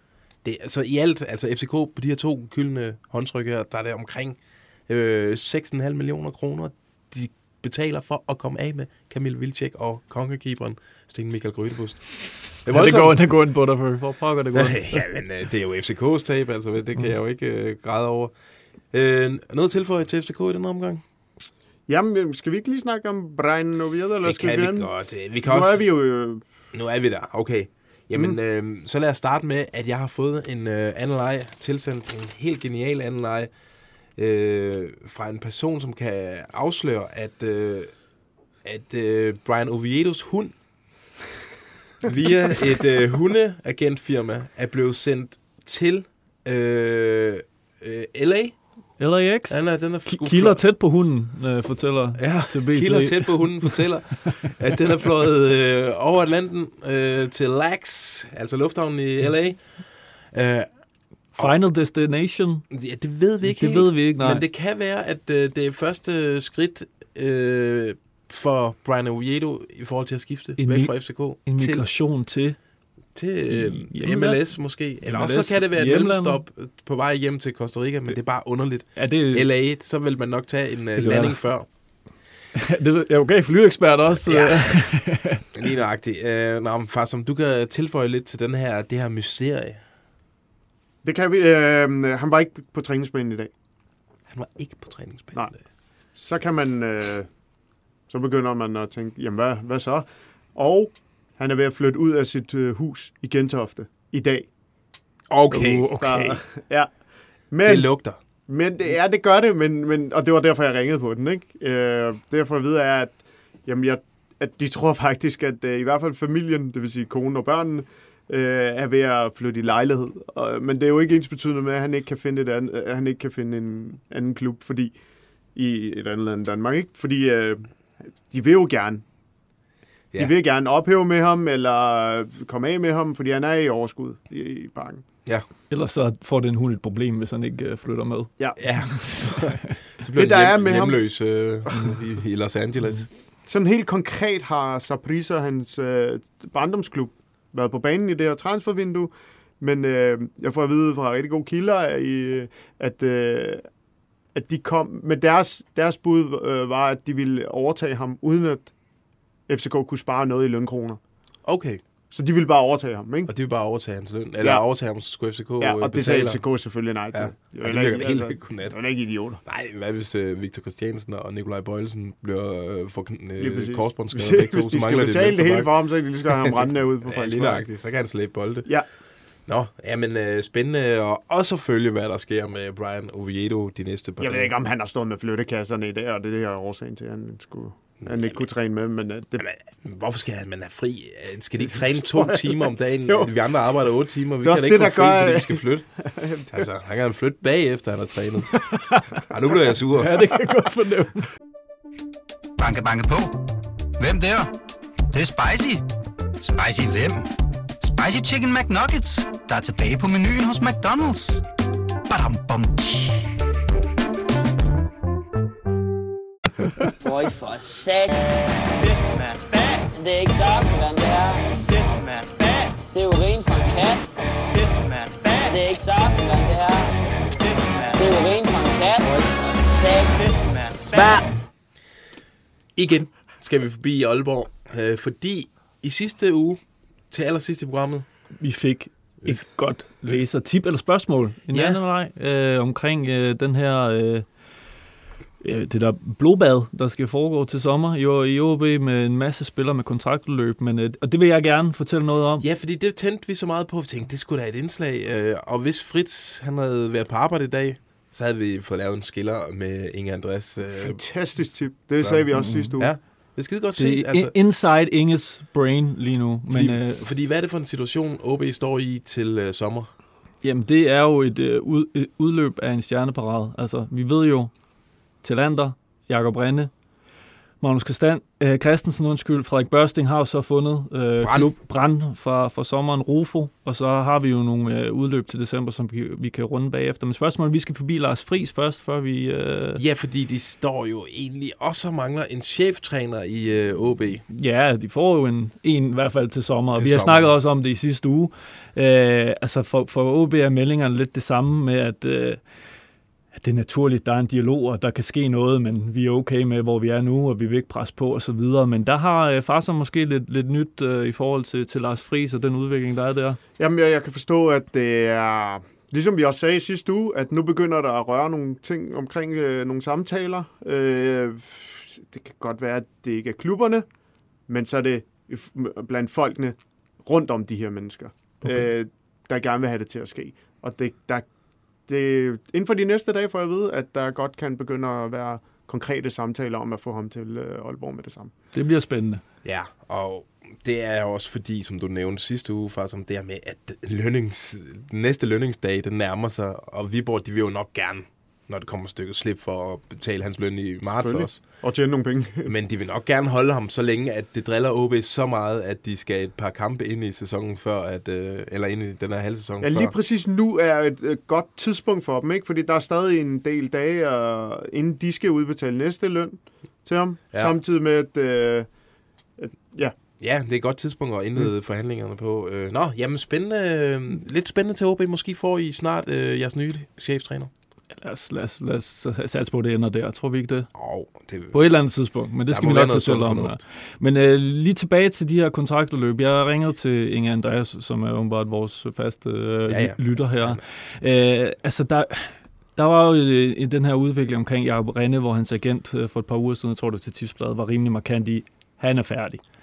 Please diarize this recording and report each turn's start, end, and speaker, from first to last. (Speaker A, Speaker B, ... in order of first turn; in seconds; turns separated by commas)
Speaker A: 0.4-13.2, Speaker B: 12.7-15.1, Speaker A: 14.5-18.3, Speaker A: 18.9-21.0, Speaker C: 21.9-24.9, Speaker A: 24.2-25.8, Speaker C: 25.4-26.4, Speaker A: 26.7-33.5, Speaker A: 34.1-38.0, Speaker A: 38.6-40.5, Speaker A: 42.0-48.6, Speaker B: 49.0-54.3, Speaker A: 49.5-50.6, Speaker A: 52.1-59.8, Speaker A: 60.3-60.7, Speaker B: 61.3-62.6, Speaker A: 62.7-71.8, Speaker B: 63.4-64.4, Speaker B: 70.6-72.6, Speaker A: 73.1-81.7, Speaker B: 73.5-76.4, Speaker B: 79.0-79.5, Speaker B: 81.0-82.0, Speaker B: 82.6-85.4, Speaker A: 85.5-89.8, Speaker C: 91.0-93.5, Speaker A: 94.3-95.6, Speaker C: 96.1-97.3, Speaker C: 98.1-104.5, Speaker A: 105.3-105.9, Speaker B: 105.5-106.4, Speaker C: 106.0-106.9, Speaker C: 107.5-124.9, Speaker A: 107.6-108.2, Speaker C: 125.5-129.0, Speaker C: 130.2-135.0, Speaker B: 135.7-138.3, Speaker A: 138.6-143.1, Speaker C: 140.2-141.2, Speaker C: 143.4-153.7, Speaker C: 154.3-158.7, Speaker C: 159.5-161.0, Speaker A: 161.4-161.8, Speaker C: 162.1-163.3, Speaker A: 163.3-166.4, Speaker C: 165.6-169.4, Speaker A: 167.1-168.8, Speaker A: 169.4-178.7, Speaker C: 173.4-177.6, Speaker A: 179.4-184.5, Speaker C: 184.2-189.4, Speaker A: 188.0-188.5, Speaker A: 189.4-195.9, Speaker C: 191.6-193.3, Speaker C: 194.4-196.7, Speaker A: 196.5-200.2, Speaker B: 200.0-201.2, Speaker D: 202.6-203.3, Speaker D: 204.0-204.5, Speaker D: 205.1-205.8, Speaker D: 206.4-207.3, Speaker D: 207.8-211.4, Speaker D: 212.1-213.2, Speaker E: 217.0-218.1, Speaker E: 219.9-221.4, Speaker E: 222.9-224.1, Speaker E: 225.4-226.9, Speaker E: 227.9-230.2, Speaker A: 230.9-231.2, Speaker A: 232.8-238.1, Speaker B: 238.4-244.2, Speaker A: 241.5-241.8, Speaker B: 245.4-252.4, Speaker A: 252.4-261.0, Speaker C: 260.6-262.9, Speaker A: 262.0-264.3, Speaker B: 262.3-262.9, Speaker B: 263.8-267.0, Speaker A: 266.5-269.9, Speaker B: 270.4-274.5, Speaker B: 275.2-276.7, Speaker B: 277.6-289.8, Speaker A: 281.2-281.5, Speaker A: 289.8-294.2, Speaker B: 294.3-302.4, Speaker A: 296.7-297.4, Speaker B: 303.3-313.4, Speaker C: 313.6-323.9, Speaker C: 324.5-331.2, Speaker C: 331.9-338.3, Speaker B: 338.5-339.2, Speaker A: 339.4-351.4, Speaker C: 351.0-352.5, Speaker A: 352.4-359.9, Speaker C: 359.6-368.7, Speaker C: 369.4-369.9, Speaker A: 370.2-377.5, Speaker B: 378.0-380.7, Speaker A: 380.7-381.7, Speaker B: 381.5-399.4, Speaker A: 382.5-383.6, Speaker A: 389.7-390.6